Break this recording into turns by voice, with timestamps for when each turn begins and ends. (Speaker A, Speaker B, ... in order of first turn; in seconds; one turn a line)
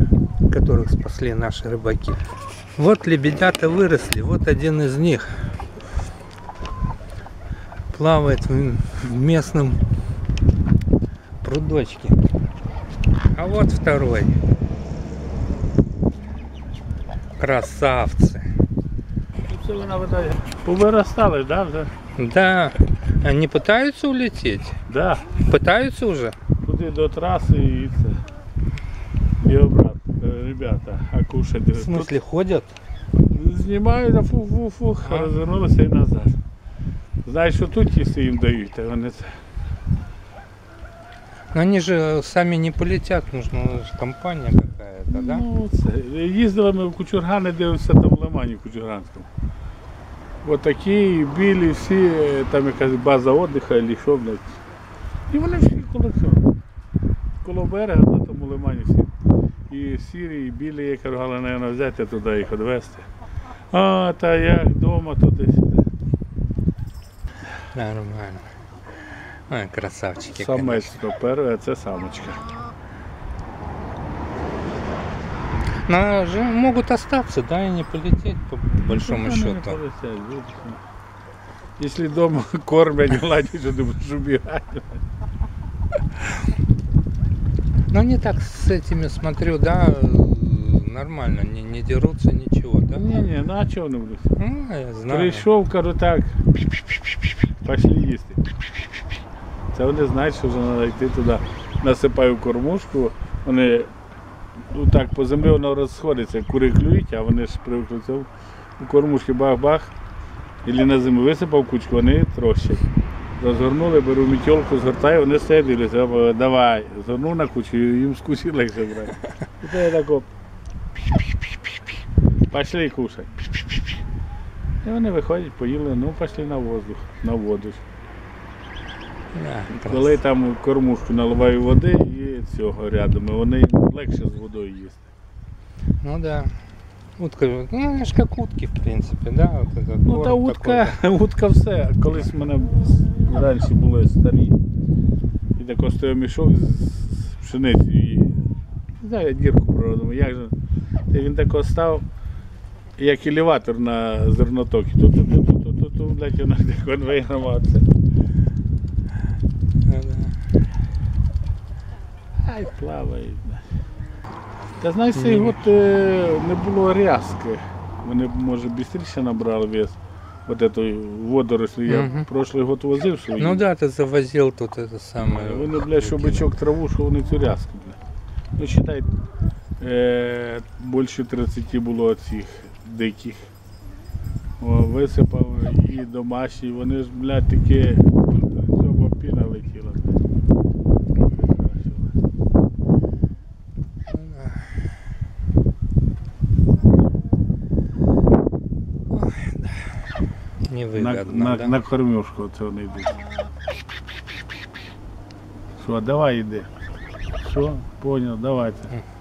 Speaker A: 0.5-2.2
Speaker A: 2.8-5.5
Speaker A: 7.9-9.8
Speaker A: 11.4-12.2
Speaker A: 13.3-14.4
Speaker A: 17.4-18.5
Speaker B: 19.5-21.9
Speaker A: 22.2-24.8
Speaker B: 24.9-25.3
Speaker A: 25.4-26.4
Speaker B: 26.6-28.2
Speaker B: 29.4-32.1
Speaker A: 31.8-32.8
Speaker B: 33.3-36.4
Speaker A: 35.0-35.3
Speaker B: 37.2-39.4
Speaker A: 41.5-45.5
Speaker B: 45.1-49.3
Speaker B: 50.4-54.6
Speaker B: 55.3-56.5
Speaker B: 57.4-59.1
Speaker B: 59.7-63.1
Speaker B: 63.7-65.8
Speaker A: 67.7-68.5
Speaker A: 69.5-71.0
Speaker B: 70.3-72.5
Speaker A: 75.8-79.8
Speaker B: 78.8-80.8
Speaker B: 81.8-85.0
Speaker A: 87.9-93.0
Speaker B: 92.9-94.3
Speaker A: 94.4-95.5
Speaker B: 95.1-96.3
Speaker B: 97.6-98.4
Speaker B: 99.7-103.9
Speaker B: 104.7-109.9
Speaker B: 110.6-112.9
Speaker B: 113.4-120.3
Speaker B: 122.5-123.5
Speaker B: 124.8-127.8
Speaker A: 129.3-130.2
Speaker B: 129.8-135.1
Speaker A: 136.0-136.5
Speaker A: 137.2-141.0
Speaker B: 140.1-144.6
Speaker B: 145.6-148.4
Speaker B: 149.0-150.6
Speaker B: 151.1-152.1
Speaker B: 153.0-157.9
Speaker A: 159.8-160.4
Speaker B: 162.4-163.6
Speaker B: 164.8-173.6
Speaker A: 165.2-165.6
Speaker A: 171.9-172.3
Speaker A: 173.4-176.5
Speaker B: 175.3-178.0
Speaker B: 178.6-179.1
Speaker B: 179.8-183.5
Speaker B: 184.6-190.1
Speaker B: 191.3-192.1
Speaker A: 194.1-194.6
Speaker A: 199.1-200.0
Speaker A: 200.7-201.8
Speaker B: 200.9-203.2
Speaker B: 205.8-206.7
Speaker B: 207.4-208.9